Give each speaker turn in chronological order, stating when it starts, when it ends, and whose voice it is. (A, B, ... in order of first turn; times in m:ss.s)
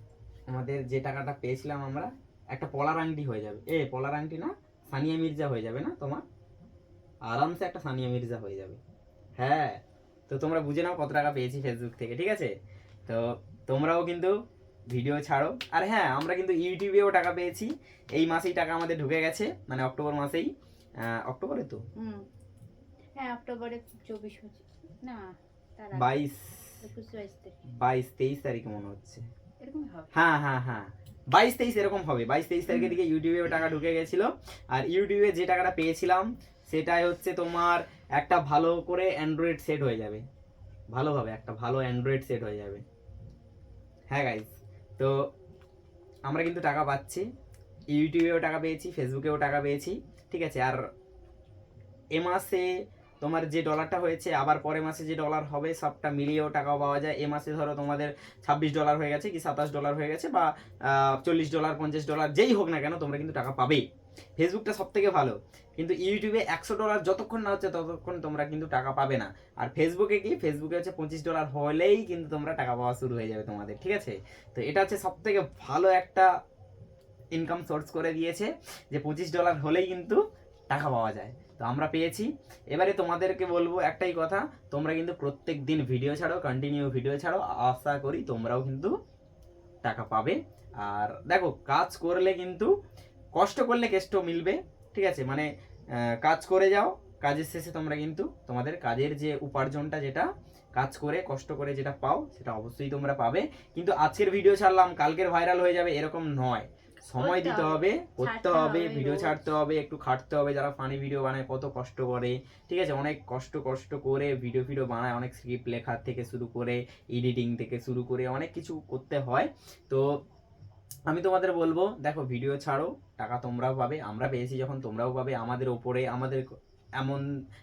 0:00.5-0:06.2 A
0:07.3-0:08.8 A
0:09.4-0:12.5 A
0:13.1-0:14.3 A
0:14.9-0:20.5 A
0:21.2-0:21.8 A
0:22.0-0:22.2 B
0:23.2-0:25.2 B
0:25.8-0:26.2 B
0:25.9-0:26.5 A
0:26.8-0:27.6 B
0:27.8-0:29.2 A
0:29.6-0:30.1 B
0:30.2-0:40.2 A
0:32.7-0:33.0 B
0:40.9-0:42.8 A
0:44.1-0:45.2 A
0:46.3-0:47.3 A
0:47.9-0:50.8 A
0:52.2-0:52.7 A
0:53.2-1:03.8 A
1:04.4-1:16.3 A
1:17.4-1:28.9 A
1:29.8-1:32.7 A
1:33.4-1:35.5 A
1:36.2-2:00.0 A
1:47.1-1:49.4 B
2:01.1-2:06.5 A
2:07.0-2:07.3 A